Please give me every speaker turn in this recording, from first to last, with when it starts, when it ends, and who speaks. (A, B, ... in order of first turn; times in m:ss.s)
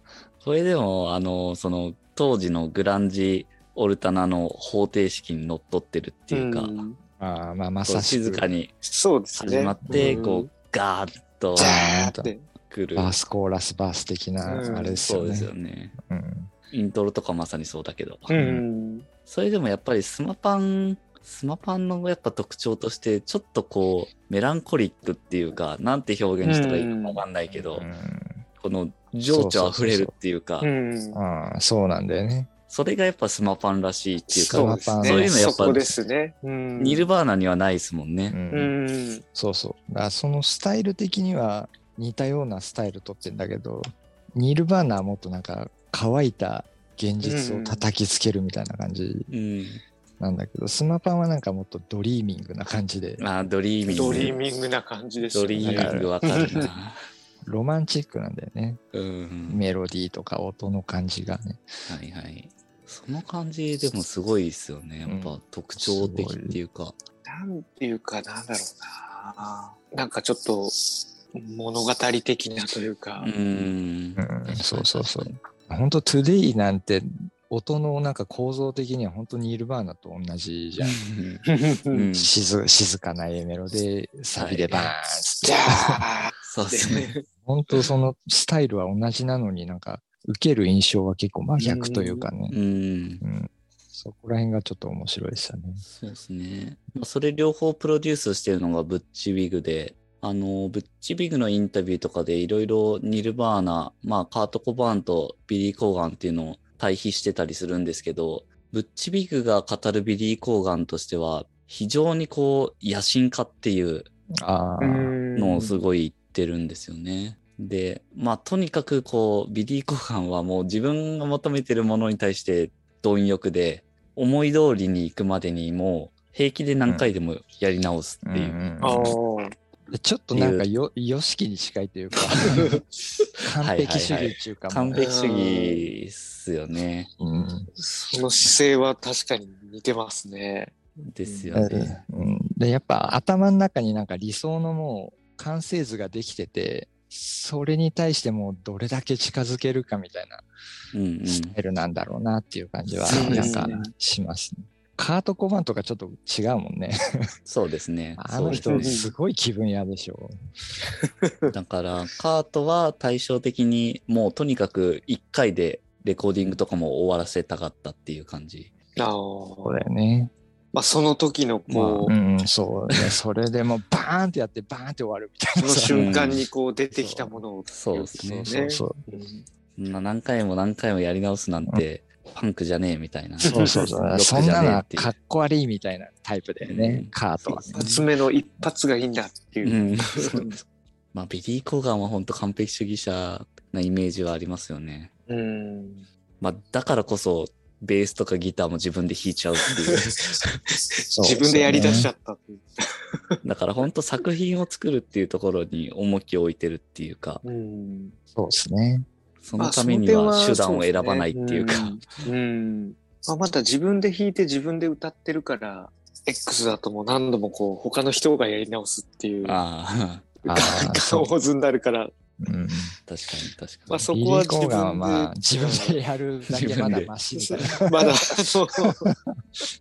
0:00.4-0:06.8 A
0:06.3-0:07.0 B
0:07.2-0:08.5 C
0:07.8-0:08.7 A
0:08.8-0:10.5 B
0:09.4-0:11.7 A
0:09.9-0:10.2 C
0:11.6-0:12.5 B
0:11.6-0:12.3 C
0:12.6-0:13.2 A
0:13.0-0:16.5 C
0:14.4-0:15.0 B
0:15.0-0:16.0 A
0:16.7-0:18.3 A
0:18.3-0:19.1 B
0:18.3-0:18.6 C
0:19.2-0:27.9 A
0:26.4-0:27.2 B
0:27.5-0:28.4 C
0:28.6-0:30.7 A
0:29.3-0:30.1 C
0:30.6-0:31.2 B
0:31.1-0:32.5 C
0:32.7-0:36.0 A
0:34.3-0:37.1 B
0:34.5-0:35.8 C
0:36.8-0:38.4 A
0:38.3-0:38.7 C
0:38.5-0:39.2 B
0:39.3-0:49.3 C
0:47.2-0:47.9 B
0:49.3-0:49.8 A
0:50.2-0:53.2 C
0:53.2-0:54.4 A
0:53.9-0:56.7 B
0:55.3-0:57.0 A
0:55.6-0:56.1 C
0:57.4-0:58.8 C
0:58.9-0:59.6 A
0:59.5-1:01.6 C
1:01.9-1:07.0 A
1:05.0-1:06.6 C
1:07.2-1:13.3 B
1:13.2-1:15.4 A
1:14.2-1:21.0 C
1:20.8-1:22.3 A
1:21.5-1:22.1 B
1:22.2-1:26.0 C
1:24.4-1:24.9 A
1:25.4-1:27.2 B
1:26.4-1:27.1 A
1:27.4-1:32.6 C
1:31.6-1:32.3 B
1:32.5-1:33.2 A
1:33.2-1:35.8 C
1:35.8-1:54.1 A
1:54.4-1:55.2 C
1:54.8-1:55.8 B
1:55.3-2:08.6 A
2:08.2-2:09.2 C
2:08.8-2:09.5 B
2:09.9-2:12.8 C
2:10.3-2:10.7 A
2:12.5-2:12.8 B
2:13.4-2:15.0 C
2:13.6-2:17.1 A
2:14.9-2:15.8 B
2:17.2-2:17.7 C
2:17.8-2:21.6 B
2:21.1-2:22.0 A
2:21.5-2:30.4 C
2:30.9-2:31.6 A
2:31.3-2:37.3 C
2:33.1-2:33.7 A
2:33.1-2:33.9 B
2:37.4-2:39.0 A
2:38.2-2:40.3 C
2:38.5-2:39.1 B
2:41.0-2:41.5 B
2:41.5-2:48.7 A
2:49.0-2:49.8 B
2:49.6-2:50.3 C
2:50.7-2:52.1 B
2:51.7-2:52.1 A
2:52.0-2:56.3 C
2:55.6-2:59.5 B
2:55.9-2:56.5 A
2:57.7-2:58.6 A
2:58.2-2:59.0 C
2:59.8-3:05.1 A
3:03.4-3:03.9 B
3:03.5-3:07.8 C
3:06.6-3:08.1 A
3:07.7-3:10.6 B
3:09.6-3:10.6 A
3:11.1-3:15.1 A
3:15.3-3:16.1 B
3:16.4-3:20.6 A
3:21.0-3:23.4 B
3:21.1-3:22.1 C
3:23.4-3:27.4 A
3:27.4-3:28.2 B
3:28.3-3:29.1 C
3:29.4-3:32.0 A
3:29.6-3:39.6 B
3:39.4-3:40.7 A
3:40.4-3:42.1 B
3:40.5-3:41.3 C
3:42.4-3:42.9 C
3:43.1-3:44.1 A
3:43.9-3:46.0 B
3:44.1-3:47.9 C
3:46.5-3:47.1 A
3:47.3-3:49.1 B